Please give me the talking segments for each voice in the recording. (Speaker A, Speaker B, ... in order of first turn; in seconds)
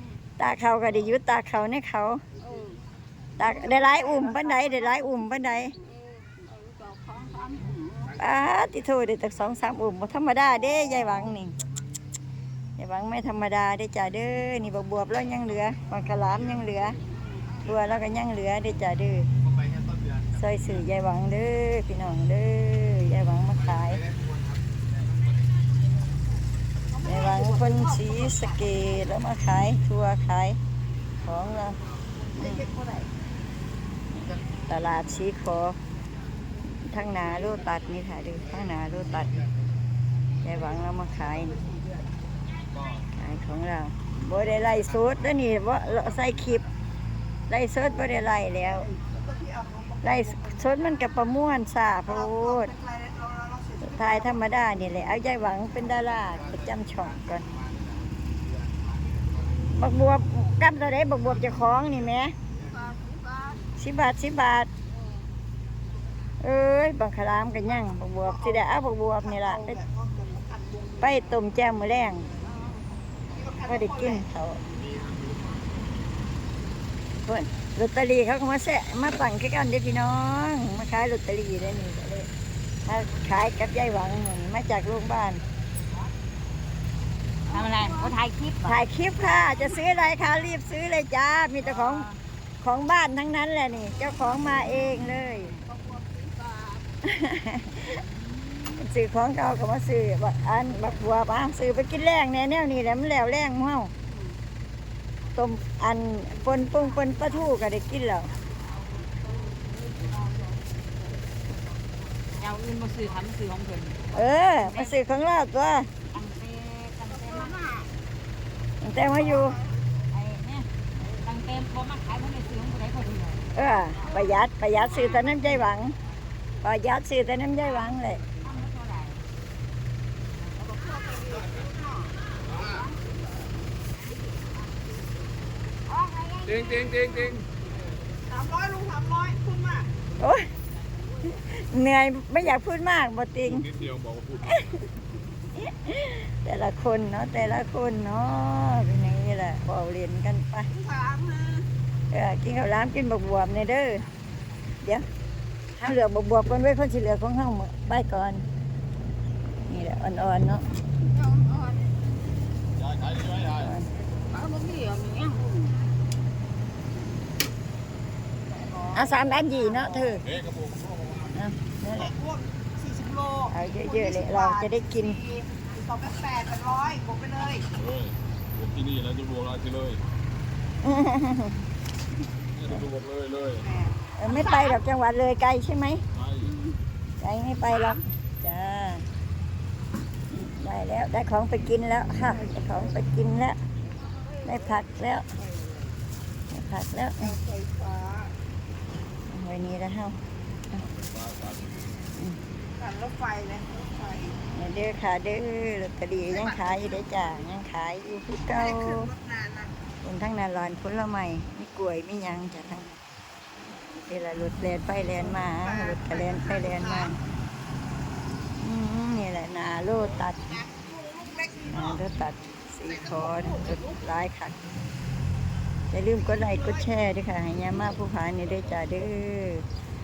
Speaker A: 0.4-2.2, 3.4-5.7, 8.2-11.5, 12.8-17.0, 17.6-19.3, 20.3-24.0, 27.0-30.6, 31.2-31.8, 32.4-32.6, 34.7-35.8, 36.8-39.4, 40.4-41.6, 43.1-46.6, 47.5-48.9, 50.0-52.7, 53.8-57.5, 59.7-62.3, 63.8-64.7, 66.4-69.8, 71.0-72.3, 73.7-74.6, 77.2-82.3, 82.8-85.4, 88.6-92.1, 92.6-95.5, 97.0-98.0, 98.7-103.9, 105.3-108.3, 114.1-115.9, 118.8-119.6, 123.5-126.0, 126.6-128.2, 140.2-140.5, 141.3-143.7, 144.4-144.8, 145.5-150.7, 152.1-154.1, 155.8-158.4, 159.7-160.6, 163.4-163.9, 168.9-170.3, 171.3-172.1, 173.5-175.2, 180.8-181.7, 184.2-186.0, 187.2-189.1, 190.3-193.6, 194.4-195.3, 196.5-197.3, 199.3-200.2, 204.5-209.1, 210.0-212.9, 214.0-217.2, 218.6-220.6, 221.7-224.5, 225.9-229.6
Speaker B: 2.4-2.8, 3.4-4.8, 5.9-8.1, 26.9-28.6, 32.4-33.1, 49.1-50.5, 52.3-54.3, 62.7-63.6, 69.7-71.0, 73.4-74.2, 87.5-88.1, 130.8-131.6, 138.3-139.9, 150.7-151.7, 161.2-161.8, 164.4-165.4, 172.0-177.6, 183.6-183.9, 197.3-198.3, 202.8-204.3, 208.8-209.7, 215.8-217.1, 220.6-221.7
Speaker C: 87.5-88.8, 91.6-92.2, 95.5-96.7, 112.3-114.9, 116.1-117.8, 120.1-123.6, 125.0-125.3, 128.4-129.2, 135.9-137.4
Speaker D: 136.7-137.4, 143.7-144.6, 162.8-163.6, 170.4-171.1, 177.7-180.0, 182.6-183.6, 186.2-186.5, 200.9-201.9